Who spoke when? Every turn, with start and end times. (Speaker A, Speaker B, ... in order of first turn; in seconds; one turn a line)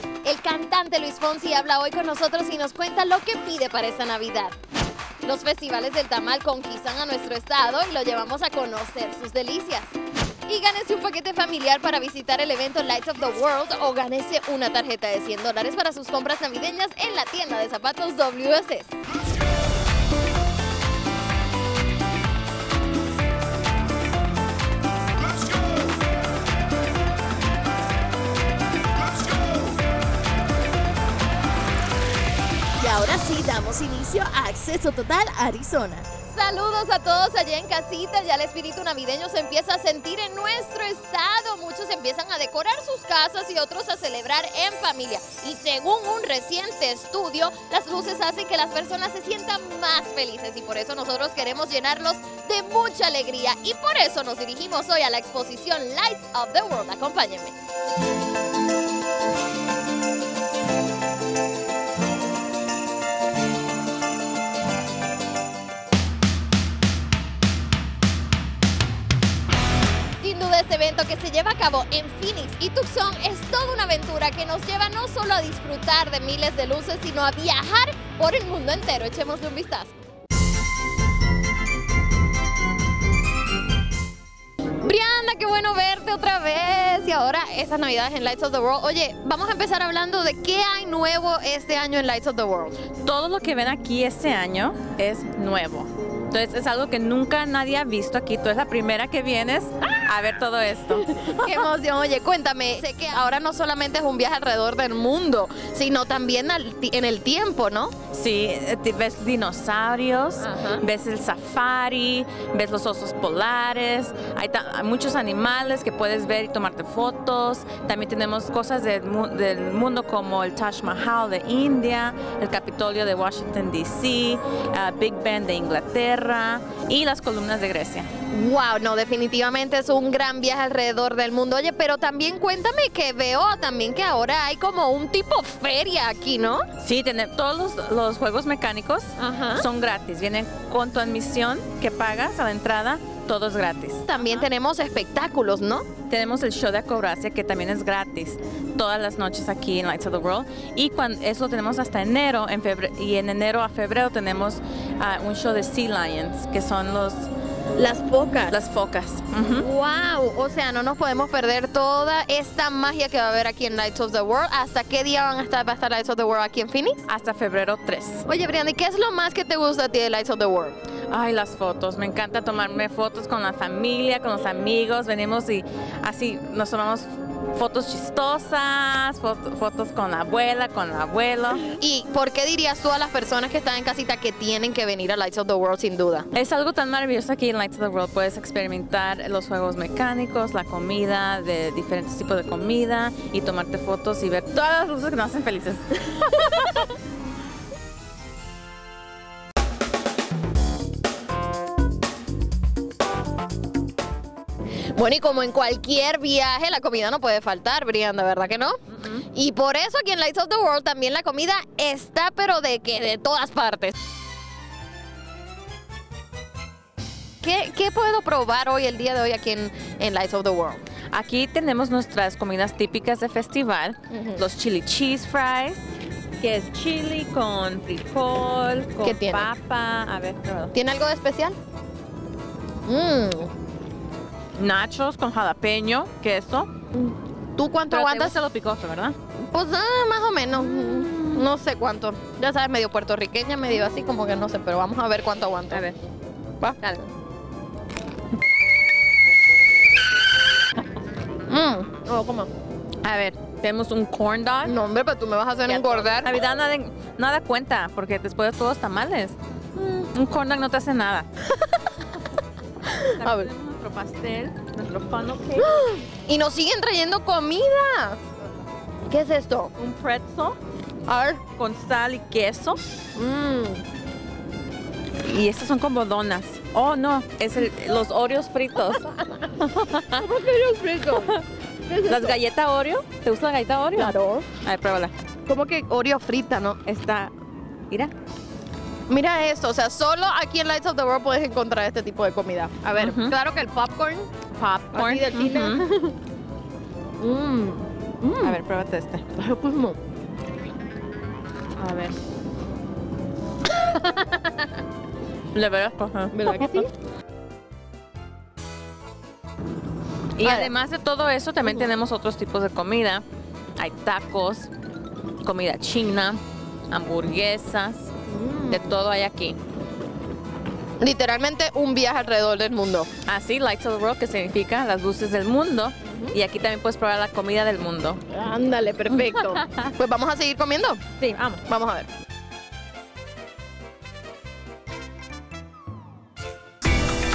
Speaker A: 0.2-4.5
Speaker A: 5.2-19.0
Speaker B: 32.8-36.1
Speaker A: 36.3-57.5
Speaker A: 70.2-79.9
Speaker A: 84.8-92.8
Speaker C: 93.0-101.4
Speaker A: 101.2-108.0
Speaker C: 108.1-128.1
Speaker A: 110.4-110.8
Speaker A: 128.3-136.7
Speaker C: 136.8-144.4
Speaker A: 139.2-139.6
Speaker A: 144.1-145.9
Speaker C: 146.1-157.3
Speaker A: 157.8-158.6
Speaker C: 158.5-159.7
Speaker A: 159.6-167.0
Speaker C: 167.1-168.2
Speaker A: 168.3-170.8
Speaker C: 171.1-181.7
Speaker A: 181.8-186.3
Speaker C: 186.3-196.8
Speaker A: 205.0-208.8
Speaker C: 208.9-209.2
Speaker A: 209.3-213.9
Speaker A: 217.4-220.8
Speaker C: 221.1-225.8
Speaker A: 224.1-224.4
Speaker C: 226.4-230.7
Speaker A: 229.0-229.5
Speaker A: 230.7-231.6
Speaker A: 232.9-233.5
Speaker C: 234.6-236.7
Speaker A: 236.9-238.3
Speaker C: 237.9-239.2
Speaker A: 239.4-245.8
Speaker C: 240.6-241.4
Speaker C: 245.7-246.0
Speaker A: 251.5-252.5
Speaker C: 253.0-254.8
Speaker A: 254.6-256.3
Speaker C: 255.7-259.4
Speaker A: 259.8-260.1
Speaker C: 260.1-261.3
Speaker C: 263.0-265.7
Speaker A: 263.2-263.5
Speaker A: 265.8-268.2
Speaker A: 269.1-269.7
Speaker C: 269.8-270.6
Speaker A: 271.1-271.4
Speaker C: 271.4-272.8
Speaker A: 273.2-273.8
Speaker C: 275.2-280.3
Speaker A: 280.2-281.3
Speaker A: 281.9-282.3
Speaker C: 282.0-285.1
Speaker A: 283.9-284.5
Speaker A: 285.5-286.8
Speaker C: 286.9-287.3
Speaker A: 289.1-294.3
Speaker C: 292.9-293.4
Speaker C: 294.6-295.8
Speaker A: 294.9-296.1
Speaker A: 297.2-298.6
Speaker C: 298.4-299.3
Speaker A: 299.4-300.0
Speaker C: 301.8-302.1
Speaker C: 305.5-306.8
Speaker A: 306.3-306.9
Speaker C: 310.4-313.2
Speaker C: 313.8-314.7
Speaker C: 315.4-318.1
Speaker A: 318.3-318.8
Speaker C: 318.7-319.6
Speaker A: 321.0-323.1
Speaker C: 323.3-328.2
Speaker A: 326.0-326.3
Speaker A: 328.3-331.0
Speaker C: 329.1-329.9
Speaker C: 331.2-331.6
Speaker A: 331.7-332.1